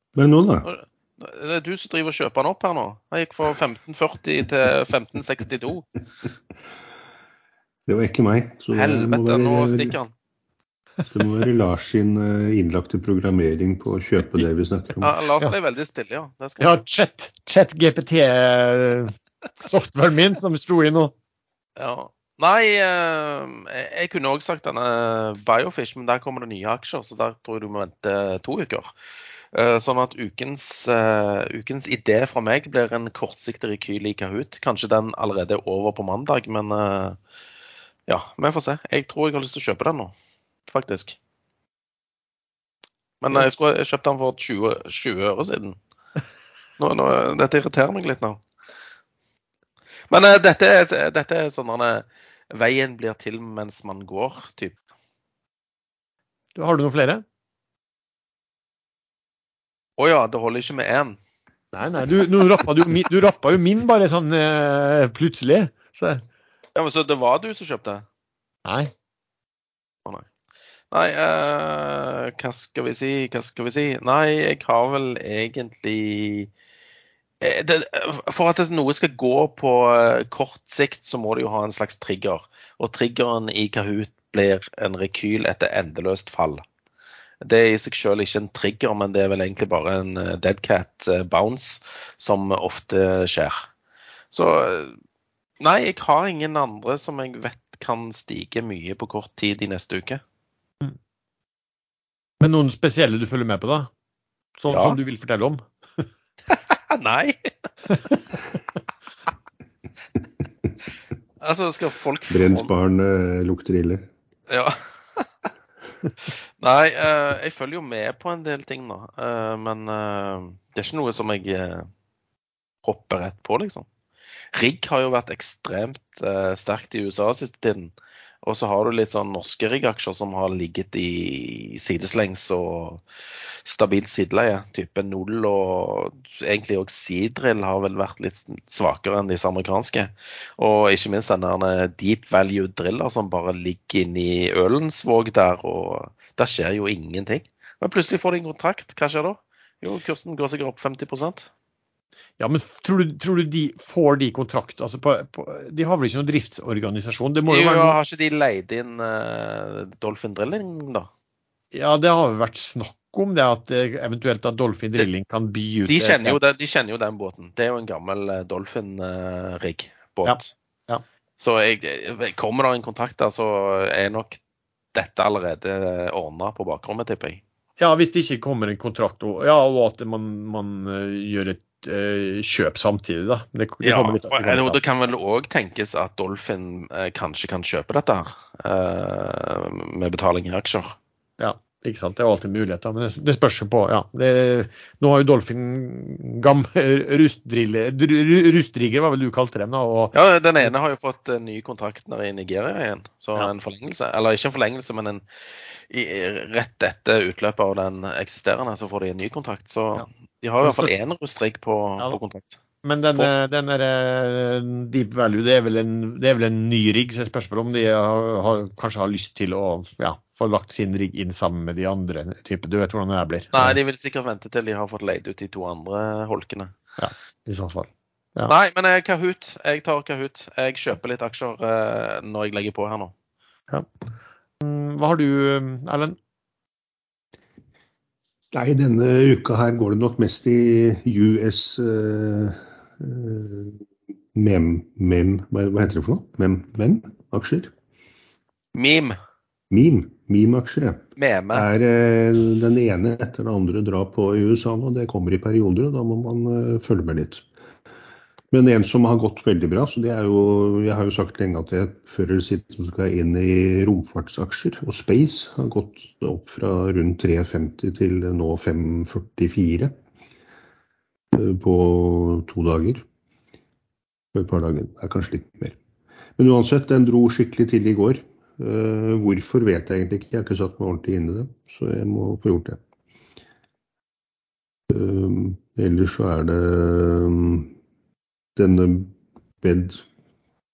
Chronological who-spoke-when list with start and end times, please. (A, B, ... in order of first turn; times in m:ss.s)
0:00.2-0:00.7 A
0:00.6-0:05.9 B
0:07.9-0:10.0 A
0:08.7-0:10.1 B
0:11.1-0:15.1 A
0:15.0-0:16.7 B
0:16.6-0:21.1 C
0:21.8-0:28.9 B
0:29.5-0:37.2 B
0:38.1-0:40.1 B
0:40.7-0:41.2 B
0:43.2-0:45.8 B
0:43.3-0:43.6 C
0:46.8-0:48.4 B
0:50.1-0:54.8 B
0:56.6-0:57.2 C
1:00.0-1:01.2 B
1:01.7-1:06.2 C
1:06.8-1:08.0 B
1:08.6-1:08.9 C
1:10.9-1:16.5 B
1:17.4-1:26.6 B
1:27.4-1:33.6 B
1:34.3-1:35.0 B
1:35.6-1:40.2 B
1:42.4-1:43.9 C
1:44.6-1:45.6 C
1:44.7-1:45.0 B
1:46.5-1:47.7 B
1:51.4-1:52.7 B
1:52.3-1:54.1 A
1:54.5-1:55.3 B
1:56.6-2:01.9 B
2:02.8-2:03.9 B
2:04.5-2:07.9 B
2:08.4-2:13.0 B
2:13.6-2:31.5 B
2:32.4-2:38.0 C
2:37.5-2:41.1 B
2:41.7-2:46.4 C
2:45.9-2:50.5 B
2:50.2-2:51.0 C
2:51.4-2:54.4 B
2:54.9-2:57.4 B
2:57.8-3:04.8 C
3:03.8-3:11.0 B
3:11.4-3:20.8 C
3:20.1-3:25.2 B
3:25.8-3:32.6 B
3:30.6-3:30.9 C
3:32.8-3:43.8 C
3:43.5-3:46.7 B
3:47.0-3:48.5 C
3:48.5-3:53.1 B
3:54.6-3:56.2 C
3:58.5-4:03.8 A
4:04.3-4:07.7 A
4:08.8-4:09.2 B
4:09.7-4:17.5 A
4:11.2-4:11.7 B
4:18.5-4:29.9 A
4:31.3-4:33.0 A
4:34.3-4:35.8 A
4:36.4-4:42.8 A
4:44.9-4:47.7 A
4:48.6-4:50.0 A